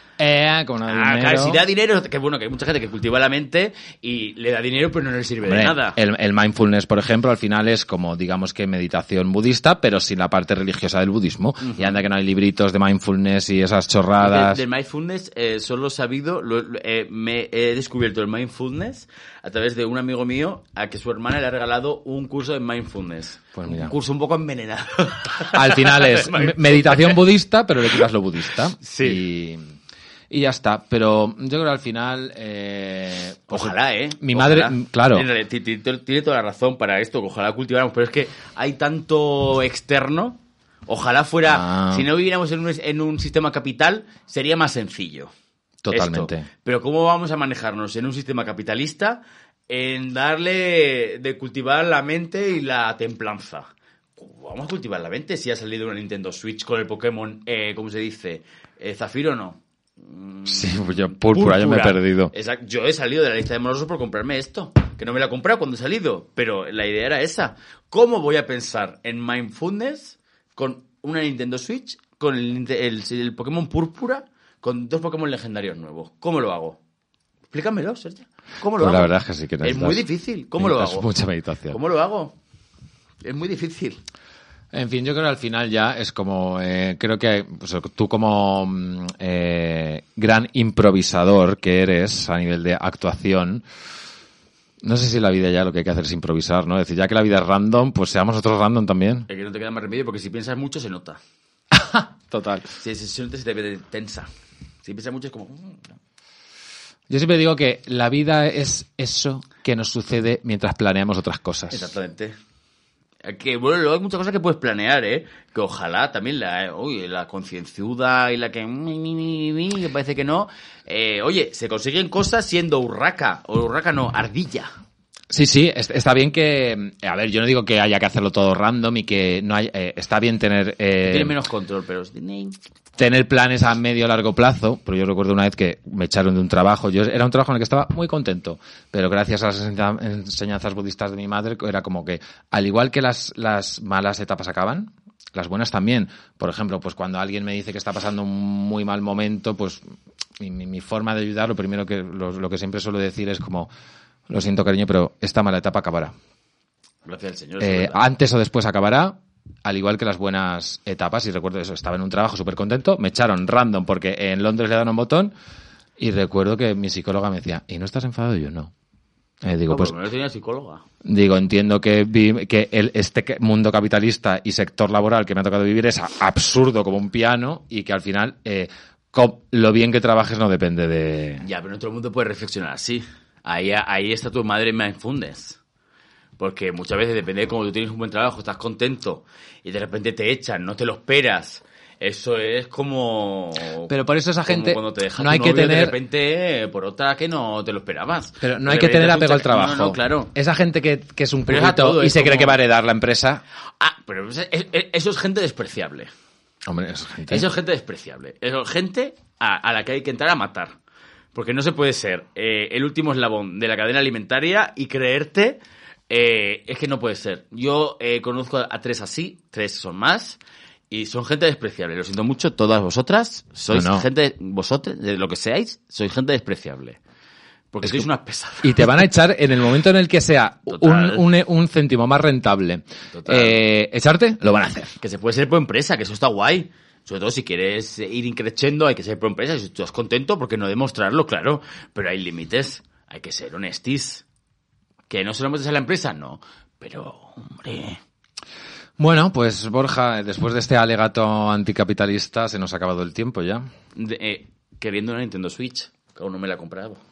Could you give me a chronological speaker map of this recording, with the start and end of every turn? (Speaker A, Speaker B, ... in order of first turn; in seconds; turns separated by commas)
Speaker A: 0.2-1.6, Speaker B: 0.9-6.0, Speaker A: 5.5-14.6, Speaker B: 11.6-12.0, Speaker B: 14.2-27.2, Speaker A: 23.6-23.9, Speaker A: 25.5-29.7, Speaker B: 28.8-29.2, Speaker A: 30.3-35.3, Speaker B: 33.5-45.3, Speaker A: 41.5-42.1, Speaker A: 45.8-46.5, Speaker B: 45.9-76.8, Speaker A: 60.5-62.3, Speaker B: 77.5-81.1, Speaker A: 78.8-81.8, Speaker B: 81.7-82.3, Speaker B: 83.2-84.0, Speaker A: 84.7-93.7, Speaker A: 94.8-99.3, Speaker B: 99.3-101.2, Speaker A: 101.7-102.7, Speaker B: 102.8-104.3, Speaker B: 104.8-105.8, Speaker A: 107.1-111.9, Speaker B: 111.7-112.3, Speaker B: 113.2-124.7, Speaker A: 125.3-131.3, Speaker B: 131.1-132.6, Speaker A: 133.0-149.8, Speaker A: 150.4-153.7, Speaker A: 154.3-156.1, Speaker B: 157.1-158.0, Speaker A: 157.6-165.3, Speaker A: 166.0-168.7, Speaker A: 169.4-169.9, Speaker B: 169.7-170.8, Speaker A: 171.0-181.4, Speaker B: 181.4-185.6, Speaker B: 186.4-193.9, Speaker A: 193.9-196.0, Speaker B: 194.4-200.3, Speaker A: 198.4-203.4, Speaker B: 201.5-202.6, Speaker B: 203.8-206.1, Speaker A: 206.7-207.5, Speaker B: 207.3-210.7, Speaker B: 211.3-220.4, Speaker B: 220.9-227.0, Speaker A: 223.7-224.1, Speaker B: 227.7-229.0, Speaker A: 227.8-228.1, Speaker A: 228.6-234.9, Speaker B: 230.7-231.2, Speaker B: 233.1-233.6, Speaker B: 235.0-244.2, Speaker B: 245.1-248.0, Speaker A: 249.0-253.7, Speaker B: 253.9-257.0